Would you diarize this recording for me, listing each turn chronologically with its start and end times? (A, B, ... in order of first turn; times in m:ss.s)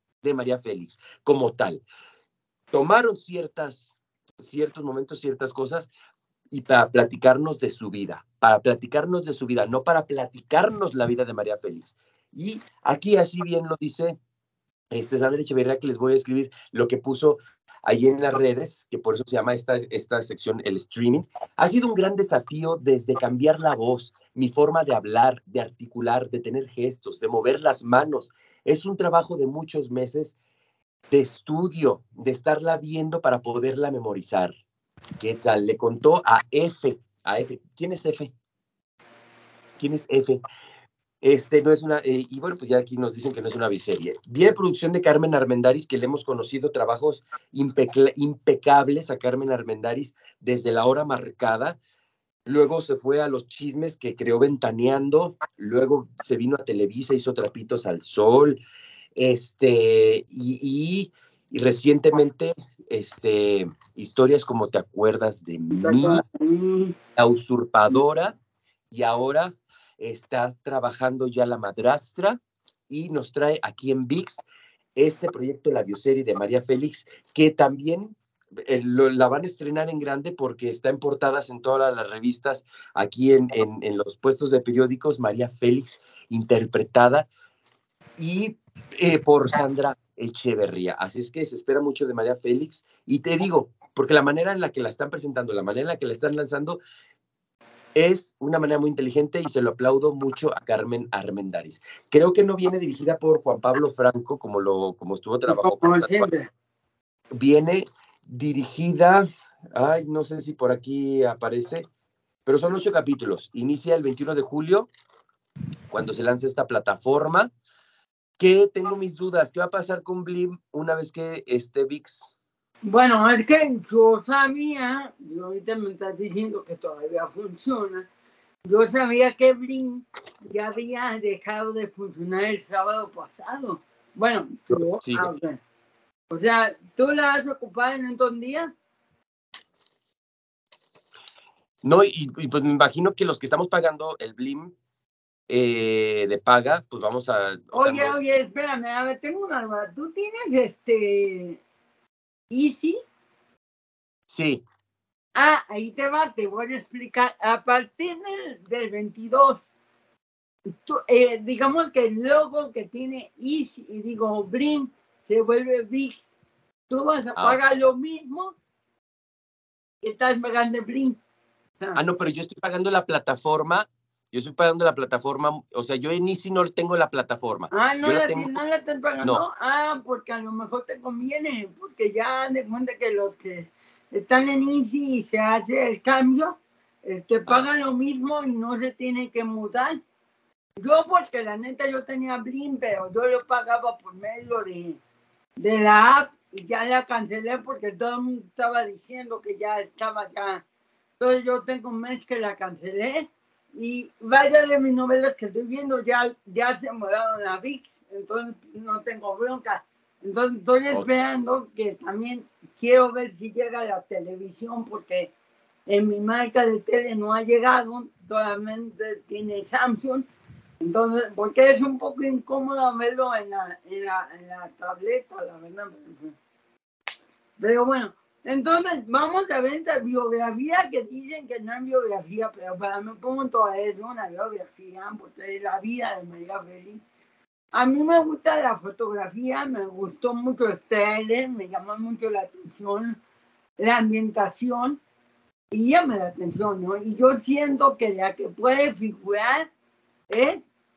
0:00.2-0:01.8 A
0:02.7-0:05.9 A
0:06.5-0:14.2 A
0:14.9-0:30.4 A
0:31.1-0:34.6 A
0:35.2-0:38.3 A
0:39.8-0:40.4 A
0:41.2-0:51.8 A
0:52.5-0:58.6 A
0:59.2-1:06.2 A
1:05.7-1:07.0 B
1:07.2-1:08.4 A
1:08.9-1:14.4 A
1:15.0-1:27.3 A
1:28.2-1:36.8 A
1:38.0-1:46.3 A
1:45.5-1:46.5 B
1:47.3-1:51.9 A
1:52.5-1:54.9 A
1:55.9-1:57.5 A
1:58.4-2:02.3 A
2:02.8-2:08.1 B
2:08.7-2:15.6 B
2:14.7-2:15.3 A
2:16.3-2:18.7 B
2:21.8-2:24.7 A
2:25.5-2:28.2 A
2:27.7-2:31.6 B
2:32.5-2:33.0 B
2:34.3-2:34.6 A
2:35.4-2:39.6 B
2:40.7-2:46.3 B
2:46.9-2:48.6 B
2:50.0-2:51.2 B
2:52.0-2:58.6 A
2:57.7-3:10.0 B
3:10.8-3:15.0 B
3:15.6-3:20.6 B
3:21.2-3:35.3 B
3:35.9-3:40.3 B
3:40.8-3:46.4 B
3:47.6-3:57.0 B
3:57.7-4:03.2 B
4:03.8-4:05.0 B
4:05.7-4:09.7 B
4:10.3-4:10.7 B